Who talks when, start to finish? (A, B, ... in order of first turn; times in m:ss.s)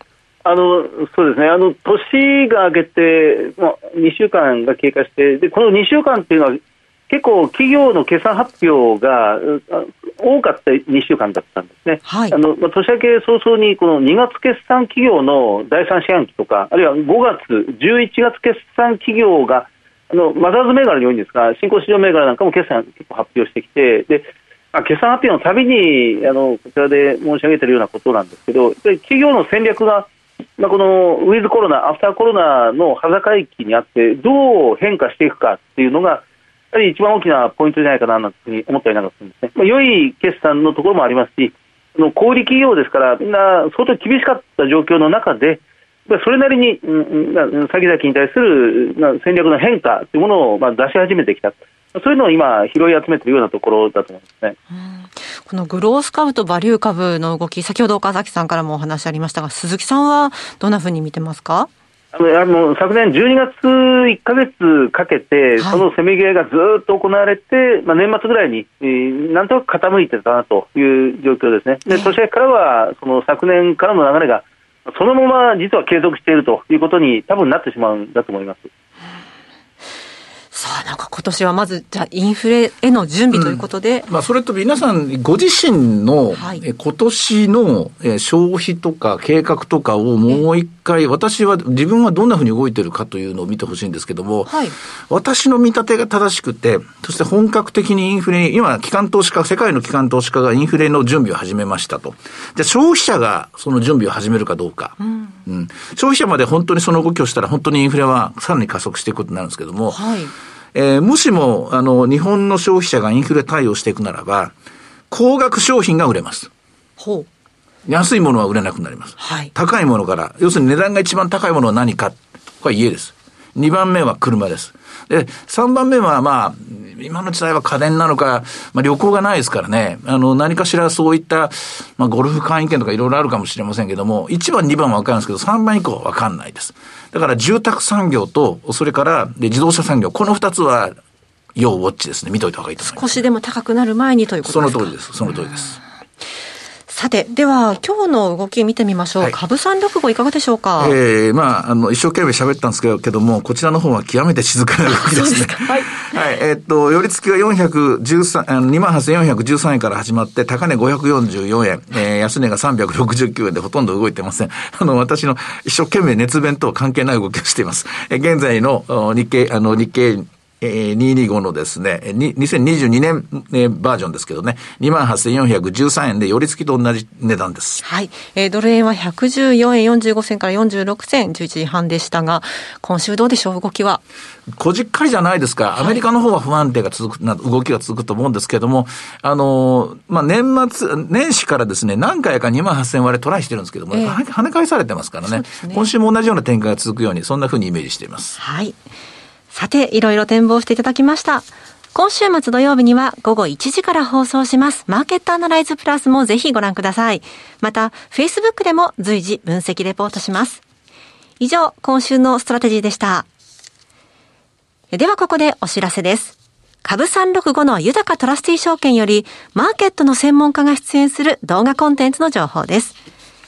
0:00.4-0:54.6 A
0:12.1-0:12.4 B
0:54.7-1:01.7 B
1:02.1-1:18.7 A
1:05.6-1:05.8 B
1:11.9-1:12.1 B
1:20.5-1:24.1 B
1:23.3-1:34.6 C
1:26.4-1:26.6 B
1:34.5-1:34.8 B
1:35.1-1:50.0 C
1:45.0-1:45.3 B
1:49.9-1:50.3 B
1:50.7-1:54.5 C
1:55.1-1:56.5 C
1:57.0-1:57.3 B
1:57.9-2:20.9 C
1:59.2-1:59.5 B
2:21.6-2:23.2 C
2:22.8-2:25.0 B
2:24.4-2:25.8 C
2:26.9-2:31.0 B
2:30.8-2:57.8 C
2:34.9-2:36.0 B
2:57.8-3:04.0 B
3:04.5-3:18.4 C
3:13.9-3:14.2 B
3:15.2-3:15.9 B
3:18.4-3:18.8 B
3:19.5-3:30.6 B
3:31.4-3:33.3 B
3:34.9-3:43.0 B